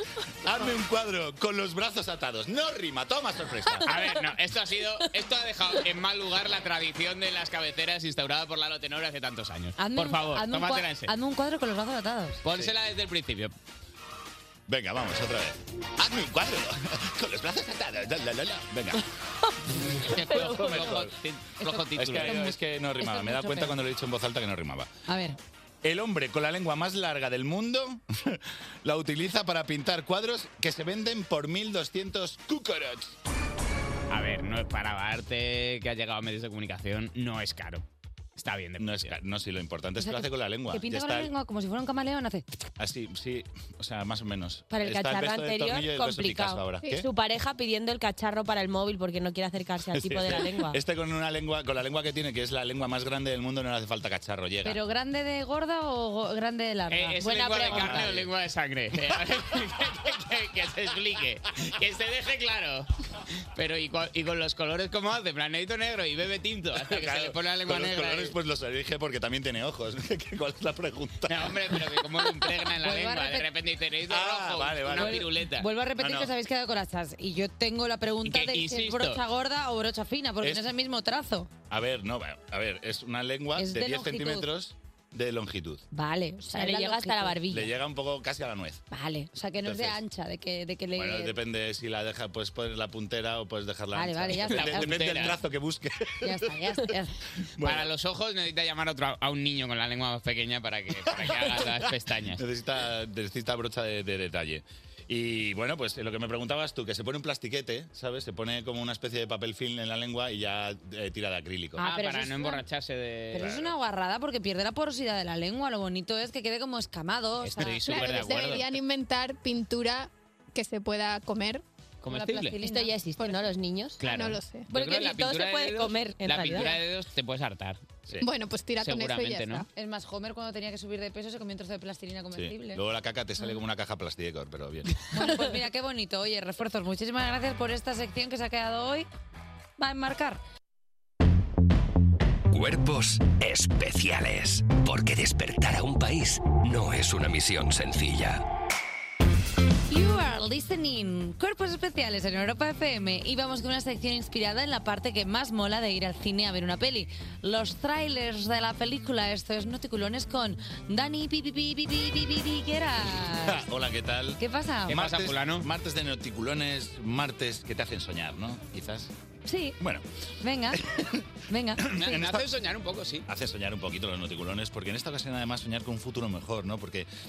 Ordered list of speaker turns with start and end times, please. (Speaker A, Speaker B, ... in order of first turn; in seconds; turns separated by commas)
Speaker A: 0.4-3.9, Speaker B: 3.8-11.1, Speaker C: 9.8-12.4, Speaker B: 12.4-13.5, Speaker A: 14.7-19.0, Speaker A: 19.7-21.1, Speaker B: 20.1-22.5, Speaker D: 20.4-20.8, Speaker C: 21.6-23.8, Speaker A: 21.9-24.9, Speaker C: 25.1-25.4, Speaker A: 25.8-33.1, Speaker B: 34.1-37.8, Speaker B: 38.4-39.1, Speaker A: 38.8-41.3, Speaker C: 40.0-42.5, Speaker A: 42.8-47.1, Speaker D: 44.7-50.8, Speaker A: 49.9-54.8, Speaker C: 54.6-58.1, Speaker B: 56.9-62.9, Speaker A: 57.7-58.3, Speaker B: 63.5-68.3, Speaker A: 66.8-71.8, Speaker B: 71.3-75.7, Speaker C: 72.8-73.5, Speaker A: 74.1-75.2, Speaker C: 74.9-81.5, Speaker A: 76.0-76.3, Speaker B: 78.2-79.2, Speaker A: 81.7-85.8, Speaker C: 83.5-84.5, Speaker C: 85.9-87.4, Speaker D: 86.0-87.7, Speaker A: 87.5-88.8, Speaker C: 88.9-91.4, Speaker A: 89.6-90.0, Speaker A: 90.9-96.8, Speaker C: 93.9-95.2, Speaker B: 94.5-95.4, Speaker C: 96.2-97.2, Speaker A: 97.6-97.9, Speaker B: 97.6-102.4, Speaker A: 101.1-111.8, Speaker C: 111.8-112.6, Speaker B: 111.8-113.6, Speaker C: 113.3-118.2, Speaker A: 113.4-113.7, Speaker B: 117.4-118.7, Speaker E: 117.8-121.6, Speaker B: 122.0-122.5, Speaker C: 122.0-122.9, Speaker D: 122.6-124.0, Speaker B: 124.0-127.9, Speaker E: 124.0-124.7, Speaker D: 124.7-126.8, Speaker E: 128.2-129.7, Speaker B: 128.8-129.7, Speaker C: 129.7-132.8, Speaker A: 132.3-134.9, Speaker C: 135.1-139.1, Speaker C: 139.8-140.4, Speaker F: 142.5-148.4, Speaker C: 149.9-163.6, Speaker A: 163.2-169.1, Speaker C: 164.4-165.0, Speaker B: 164.9-165.7, Speaker C: 169.4-169.8, Speaker A: 169.8-170.0, Speaker C: 170.4-170.8, Speaker A: 170.7-171.2, Speaker C: 171.5-172.2, Speaker A: 171.8-172.5, Speaker B: 171.9-173.3, Speaker A: 173.3-177.1